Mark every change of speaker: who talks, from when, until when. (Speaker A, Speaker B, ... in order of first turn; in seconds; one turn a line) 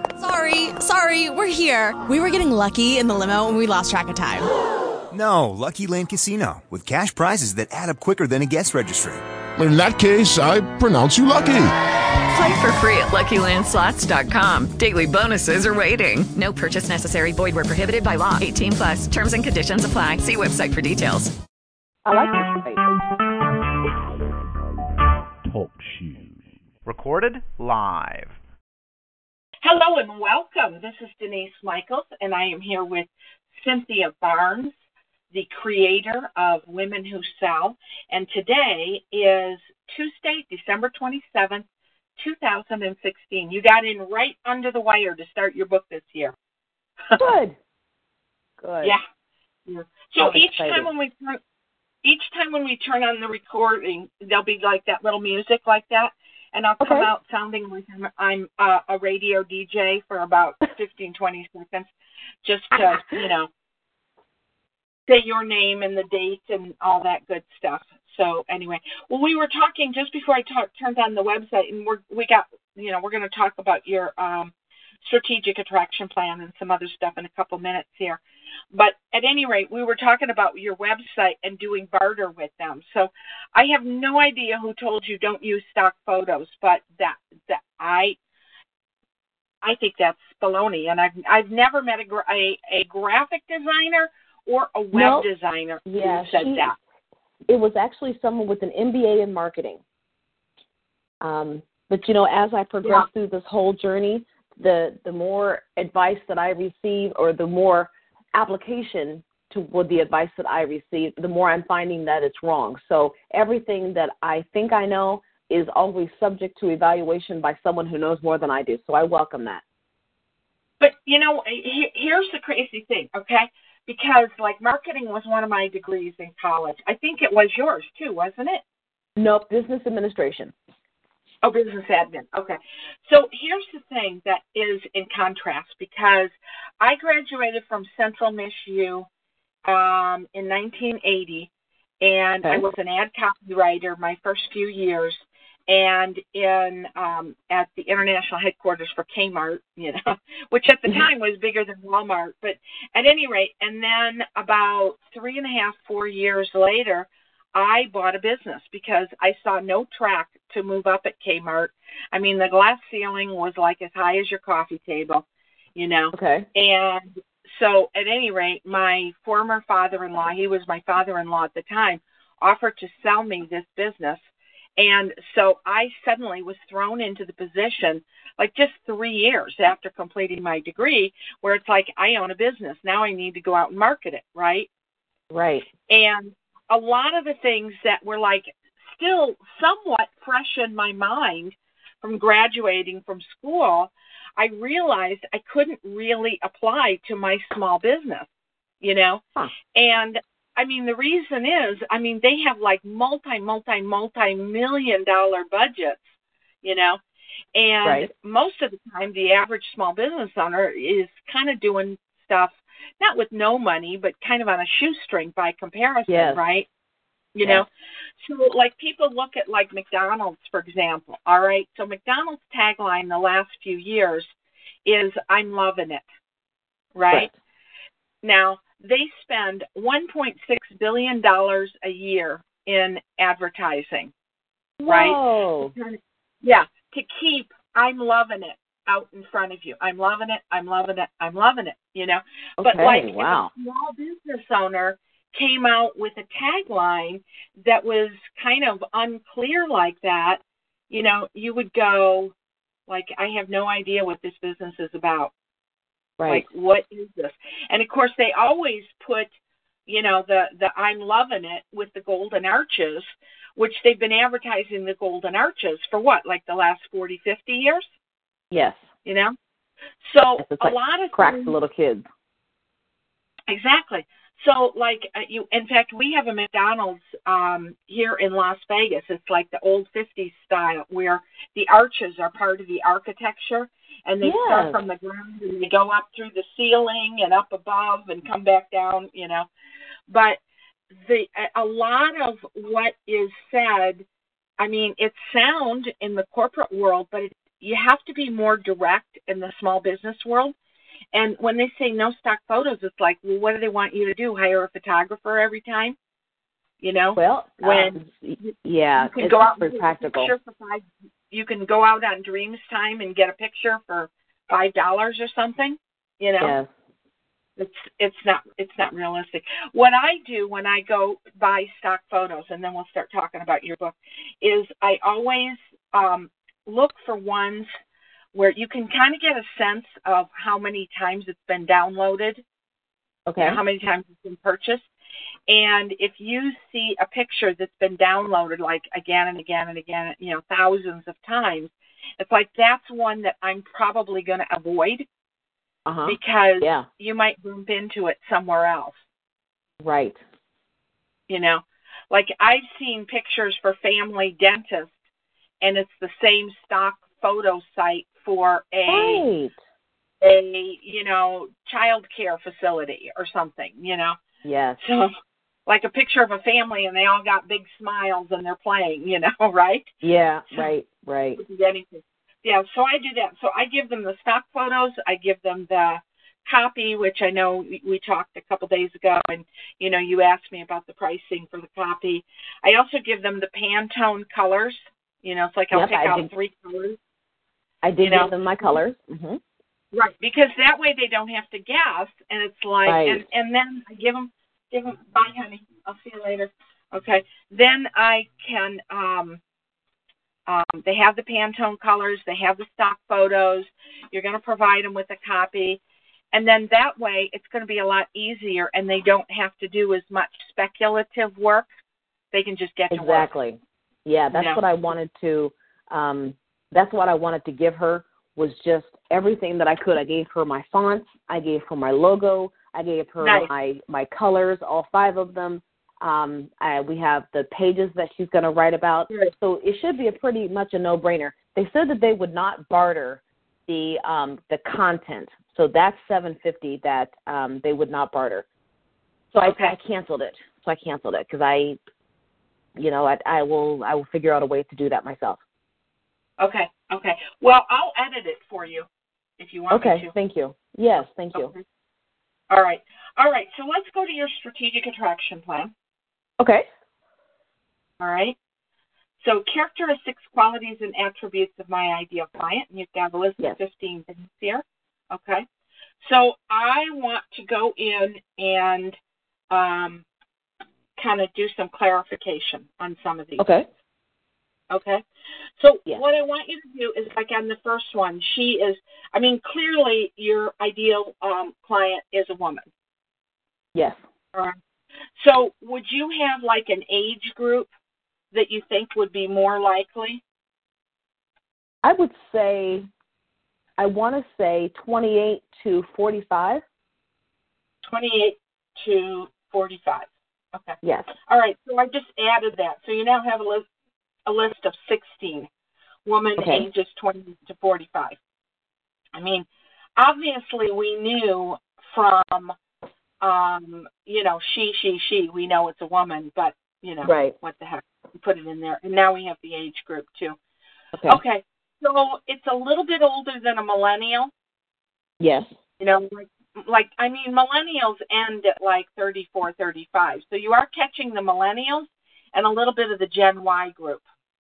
Speaker A: 0.2-4.5
Speaker B: 5.1-9.2
Speaker C: 9.6-11.7
Speaker D: 12.3-21.3
Speaker E: 22.0-22.8
Speaker F: 25.4-28.4
Speaker G: 29.6-34.7
Speaker G: 35.3-41.6
Speaker G: 42.2-46.3
Speaker E: 47.2-47.6
Speaker E: 48.6-49.0
Speaker G: 49.7-51.4
Speaker E: 50.2-50.9
Speaker G: 52.0-61.9
Speaker E: 56.8-57.1
Speaker G: 62.4-63.5
Speaker E: 62.7-63.0
Speaker G: 65.1-74.5
Speaker G: 75.0-78.2
Speaker G: 78.7-88.2
Speaker G: 89.6-96.8
Speaker E: 94.9-95.3
Speaker E: 95.8-96.7
Speaker E: 97.5-99.8
Speaker E: 101.2-119.6
Speaker G: 120.8-128.6
Speaker E: 129.2-130.5
Speaker G: 131.4-139.1
Speaker G: 139.6-141.5
Speaker G: 142.0-165.2
Speaker G: 165.8-174.2
Speaker E: 166.1-166.5
Speaker G: 174.8-184.7
Speaker E: 185.3-185.7
Speaker G: 185.9-198.3
Speaker G: 198.8-199.2
Speaker G: 199.7-206.0
Speaker G: 206.6-207.0
Speaker G: 207.5-216.7
Speaker E: 207.8-208.1
Speaker E: 216.1-216.4
Speaker G: 217.3-224.3
Speaker G: 224.8-226.0
Speaker G: 226.9-227.3
Speaker G: 228.2-234.1
Speaker E: 234.8-235.7
Speaker G: 234.9-252.3
Speaker E: 242.6-243.5
Speaker G: 252.9-255.3
Speaker E: 256.2-256.4
Speaker G: 256.3-259.3
Speaker G: 259.9-267.9
Speaker E: 268.5-268.8
Speaker G: 269.0-269.3
Speaker G: 270.0-271.6
Speaker E: 270.4-272.1
Speaker G: 273.5-289.5
Speaker E: 284.2-284.8
Speaker G: 290.1-290.4
Speaker G: 290.9-294.0
Speaker G: 294.6-300.5
Speaker G: 301.1-305.9
Speaker G: 306.8-316.5
Speaker E: 307.1-310.3
Speaker E: 316.4-316.7
Speaker G: 317.6-327.7
Speaker G: 328.3-332.4
Speaker E: 333.2-333.6
Speaker G: 333.4-334.9
Speaker G: 335.5-345.1
Speaker E: 345.9-346.9
Speaker G: 346.0-348.9
Speaker E: 349.8-350.2
Speaker G: 351.3-354.9
Speaker G: 355.6-359.3
Speaker E: 358.9-359.6
Speaker G: 360.2-364.2
Speaker E: 364.4-364.8
Speaker G: 364.8-365.1
Speaker G: 365.7-369.9
Speaker E: 370.0-371.4
Speaker G: 371.4-387.0
Speaker E: 385.7-386.3
Speaker E: 387.8-389.4
Speaker G: 388.0-388.3
Speaker G: 389.9-399.4
Speaker E: 392.9-393.2
Speaker G: 400.5-405.8
Speaker G: 406.3-411.7
Speaker G: 412.3-413.3
Speaker E: 412.9-438.4
Speaker G: 414.3-414.6
Speaker G: 423.2-423.5
Speaker E: 439.3-441.8
Speaker G: 439.4-439.7
Speaker E: 442.7-445.4
Speaker G: 446.4-448.9
Speaker G: 449.4-450.1
Speaker E: 449.7-451.5
Speaker G: 451.3-451.6
Speaker G: 452.5-455.7
Speaker E: 456.4-456.7
Speaker G: 458.0-458.4
Speaker G: 459.2-465.4
Speaker G: 466.0-468.9
Speaker G: 469.5-470.0
Speaker G: 470.9-473.5
Speaker E: 473.4-473.7
Speaker G: 474.7-475.0
Speaker G: 475.6-482.6
Speaker E: 483.7-484.0
Speaker G: 485.2-487.7
Speaker G: 488.3-490.2
Speaker E: 491.8-492.9
Speaker E: 493.8-496.6
Speaker G: 497.8-503.6
Speaker E: 500.8-501.1
Speaker G: 504.2-505.5
Speaker G: 506.1-508.1
Speaker E: 506.4-506.7
Speaker G: 509.1-512.5
Speaker G: 513.2-520.4
Speaker E: 517.0-517.3
Speaker E: 520.9-521.2
Speaker G: 521.1-524.3
Speaker E: 525.2-525.5
Speaker G: 525.8-534.0